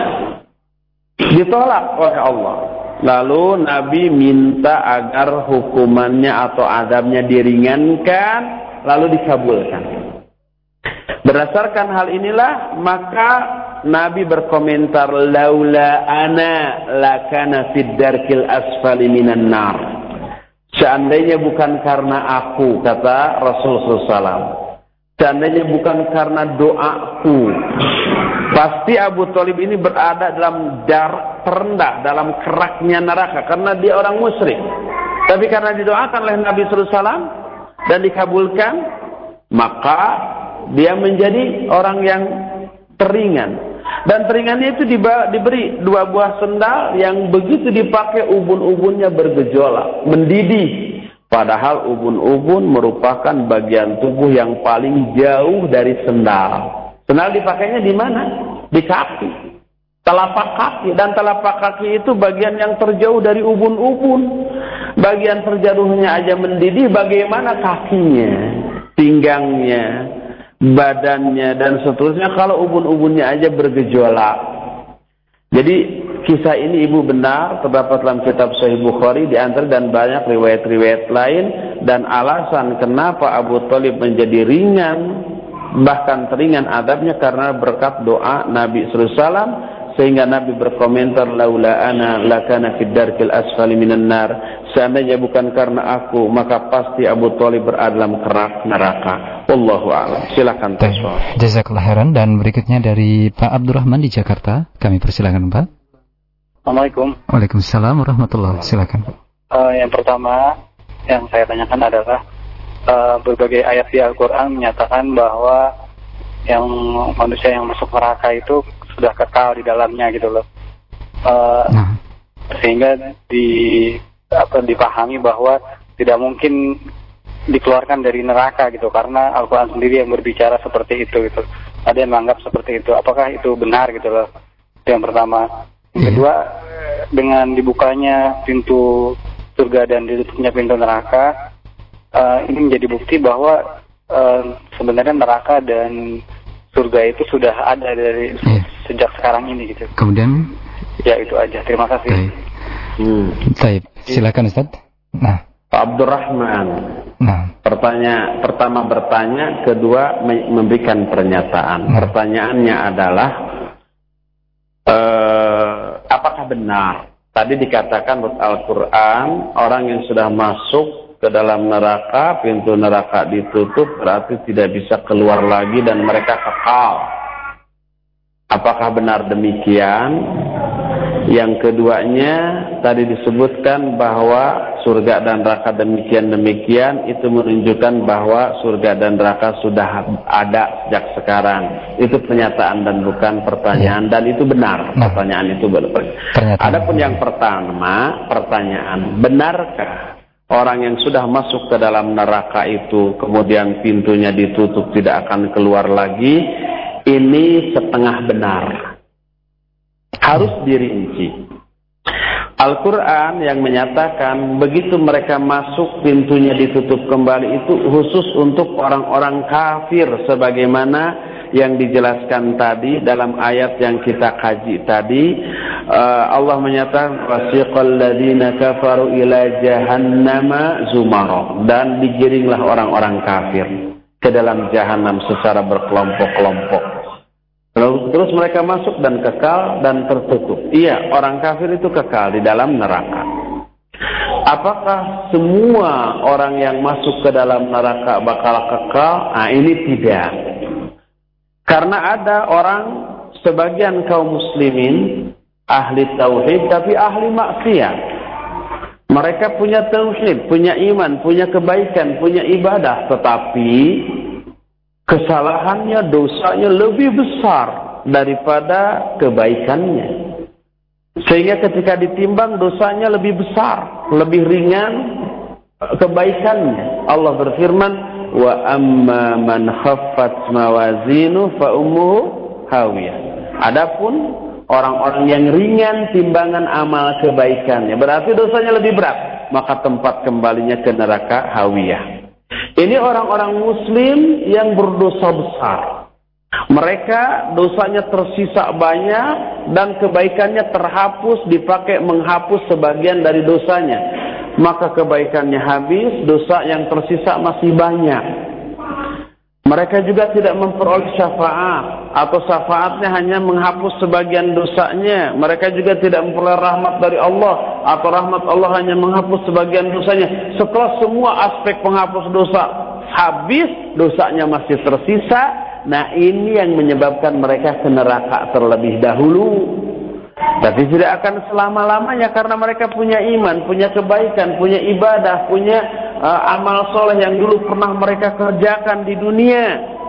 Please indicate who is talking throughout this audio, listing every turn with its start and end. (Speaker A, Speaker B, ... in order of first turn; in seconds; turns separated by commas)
Speaker A: 1.2-10.1, Speaker A: 11.2-19.9, Speaker A: 20.7-24.6, Speaker A: 25.2-34.6, Speaker A: 35.3-37.3, Speaker A: 37.9-38.8, Speaker A: 39.5-59.3, Speaker A: 60.0-64.3, Speaker A: 65.0-69.9, Speaker A: 70.6-74.4, Speaker A: 75.5-85.2, Speaker A: 85.8-101.3, Speaker B: 100.8-105.7, Speaker C: 106.7-107.2, Speaker B: 107.3-109.1, Speaker C: 109.5-110.5, Speaker C: 111.1-112.2, Speaker C: 112.9-115.7, Speaker C: 116.5-120.4, Speaker C: 121.2-121.7, Speaker B: 121.7-122.0, Speaker C: 122.5-126.8, Speaker C: 127.5-134.2, Speaker C: 134.8-136.5, Speaker C: 137.1-141.3, Speaker C: 142.1-143.6, Speaker C: 144.1-146.2, Speaker C: 146.7-149.9, Speaker B: 149.9-150.5, Speaker C: 151.0-152.3, Speaker A: 153.0-153.4, Speaker B: 153.4-155.4, Speaker A: 155.7-156.9, Speaker B: 157.2-157.5, Speaker A: 157.6-163.4, Speaker A: 164.9-177.1, Speaker A: 178.5-180.5, Speaker A: 181.3-206.4, Speaker B: 196.3-197.2, Speaker A: 207.1-208.9, Speaker A: 210.2-211.4, Speaker A: 212.6-225.3, Speaker A: 225.9-236.9, Speaker A: 237.8-243.3, Speaker A: 244.5-250.3, Speaker A: 251.7-257.9, Speaker A: 259.1-264.4, Speaker A: 265.1-270.1, Speaker A: 271.2-275.3, Speaker A: 276.0-292.2, Speaker A: 292.8-296.0, Speaker A: 296.7-304.0, Speaker A: 304.6-308.2, Speaker A: 309.7-329.9, Speaker A: 330.6-339.8